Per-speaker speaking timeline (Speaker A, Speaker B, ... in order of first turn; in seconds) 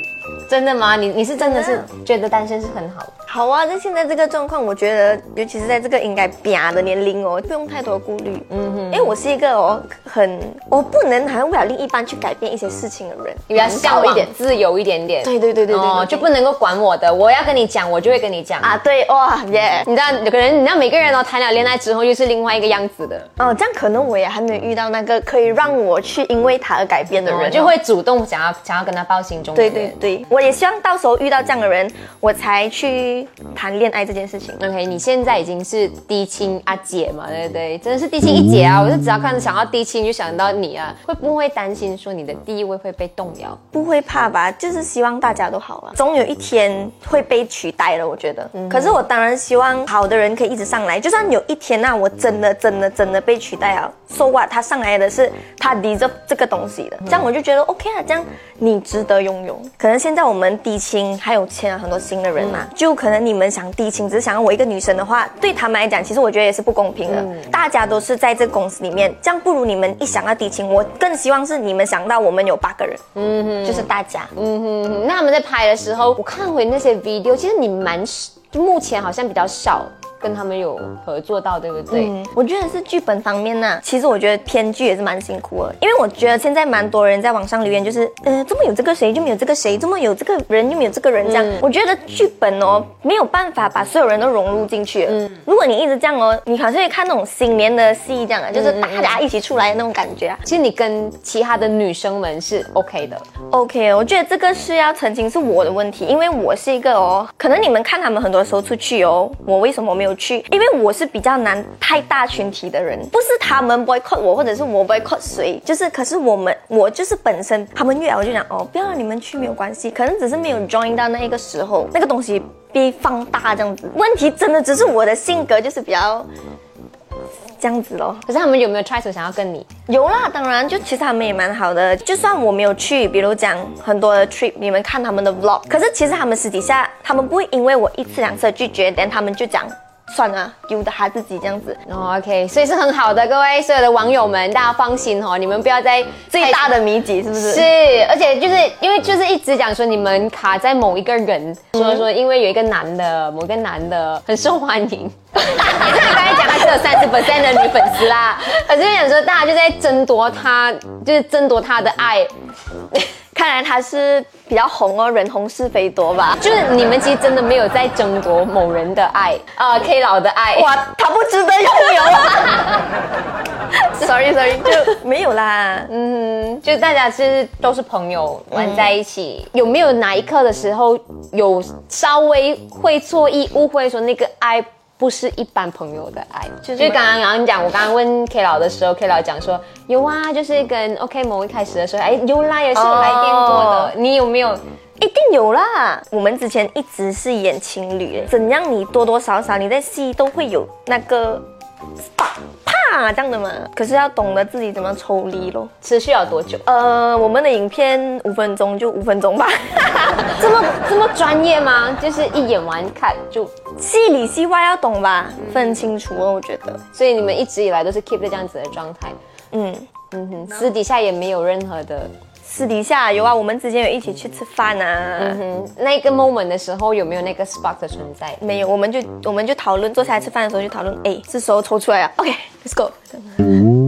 Speaker A: 0.5-3.1, 8.5-9.1, 13.5-18.7, 19.9-23.3, 27.2-29.9, 34.6-43.6, 73.2-82.1, 98.6-99.2, 100.5-103.2, 128.3-129.7, 141.9-146.7, 147.4-162.3, 166.4-170.8, 175.9-194.6, 205.8-206.6, 210.3-213.5, 216.9-219.2, 220.1-222.1, 225.2-228.4
Speaker B: 1.4-1.9, 3.3-14.3, 15.2-16.3, 18.6-19.9, 23.4-27.8, 29.6-34.6, 43.7-73.0, 73.6-74.3, 81.9-100.4, 103.5-126.3, 127.6-128.2, 129.9-141.8, 146.3-147.7, 155.6-156.6, 163.3-166.4, 170.6-172.8, 173.9-175.9, 178.6-178.8, 186.6-187.1, 192.7-193.9, 195.0-201.5, 202.0-205.7, 206.7-210.5, 213.8-216.8, 219.5-219.9, 222.4-225.4, 228.4-233.5